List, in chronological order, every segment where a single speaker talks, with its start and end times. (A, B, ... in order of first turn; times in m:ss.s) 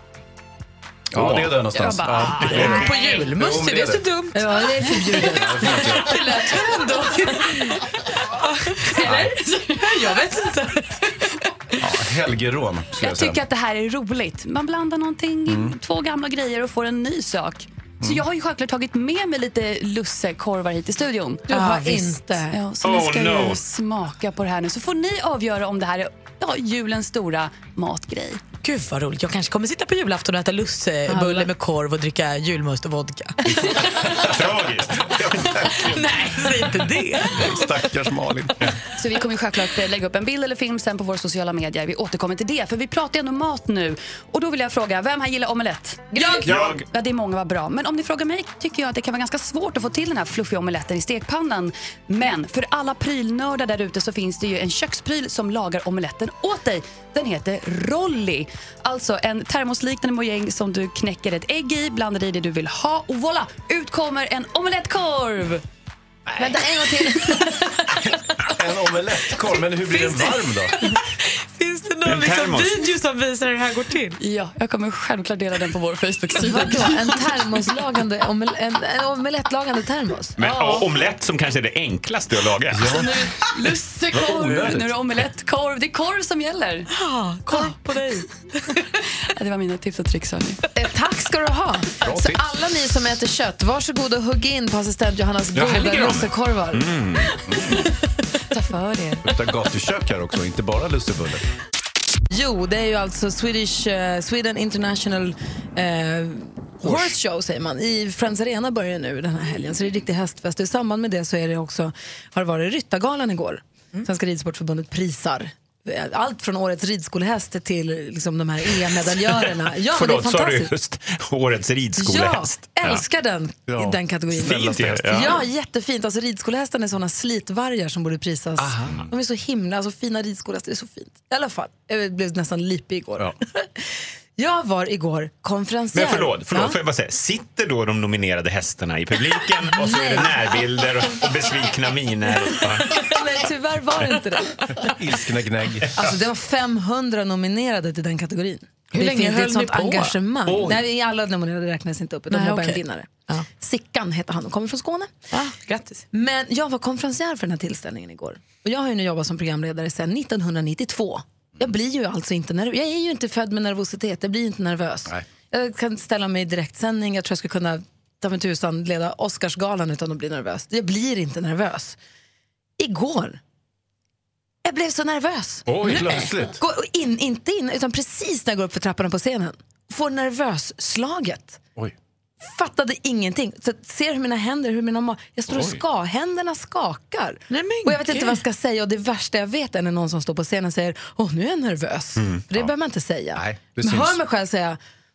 0:01.1-0:04.0 A
0:01.1-0:01.6 B
0:01.7-0:03.1 C
0:02.3-0:11.5 D
0:04.3-0:06.0 E
0:05.3-0:06.2 A
0:09.0-0:09.3 A
0:11.8-0:13.4 A
0:13.0-0:21.5 C
0:15.5-0:15.7 A
0:21.5-0:22.6 E
0:21.5-0:22.1 D
0:22.5-0:28.4 C
0:22.8-0:23.6 B
0:28.6-0:34.1 D
0:31.2-0:31.5 C
0:33.4-0:36.2 B
0:35.2-0:36.0 A
0:35.4-0:37.7 D
0:37.3-0:38.6 A
0:38.9-1:05.6 C
0:46.2-0:46.7 E
0:46.4-0:46.9 B
1:06.3-1:06.6 A
1:06.4-1:07.6 E
1:07.1-1:07.4 C
1:08.0-1:10.8 A
1:09.8-1:14.2 D
1:12.0-1:12.8 B
1:14.2-1:17.3 C
1:16.5-1:16.9 D
1:16.5-1:20.3 E
1:20.4-1:23.0 B
1:20.4-1:20.8 C
1:20.4-1:20.7 D
1:22.7-1:23.3 A
1:22.8-1:26.9 C
1:24.2-1:24.9 A
1:26.9-1:28.8 D
1:29.2-1:30.6 C
1:30.7-1:36.9 E
1:32.0-1:32.4 A
1:35.5-1:37.4 B
1:37.4-1:37.8 A
1:38.5-1:39.2 C
1:39.2-1:41.4 A
1:42.3-2:00.7 E
1:46.8-1:47.1 A
1:59.9-2:03.0 B
2:02.0-2:16.8 E
2:03.7-2:05.4 A
2:04.4-2:05.4 B
2:08.6-2:09.1 A
2:15.9-2:23.1 B
2:19.7-2:20.6 E
2:22.8-2:24.9 E
2:24.8-2:25.9 A
2:25.9-2:35.1 E
2:28.9-2:30.2 D
2:30.4-2:30.8 B
2:32.3-2:33.4 D
2:35.3-2:36.0 D
2:36.1-2:52.0 E
2:52.8-2:53.4 E
2:54.6-3:01.6 E
2:55.7-2:56.3 B
2:55.8-2:56.6 A
3:02.4-3:14.8 E
3:05.5-3:05.8 B
3:07.5-3:08.4 D
3:12.2-3:12.5 B
3:13.3-3:14.2 A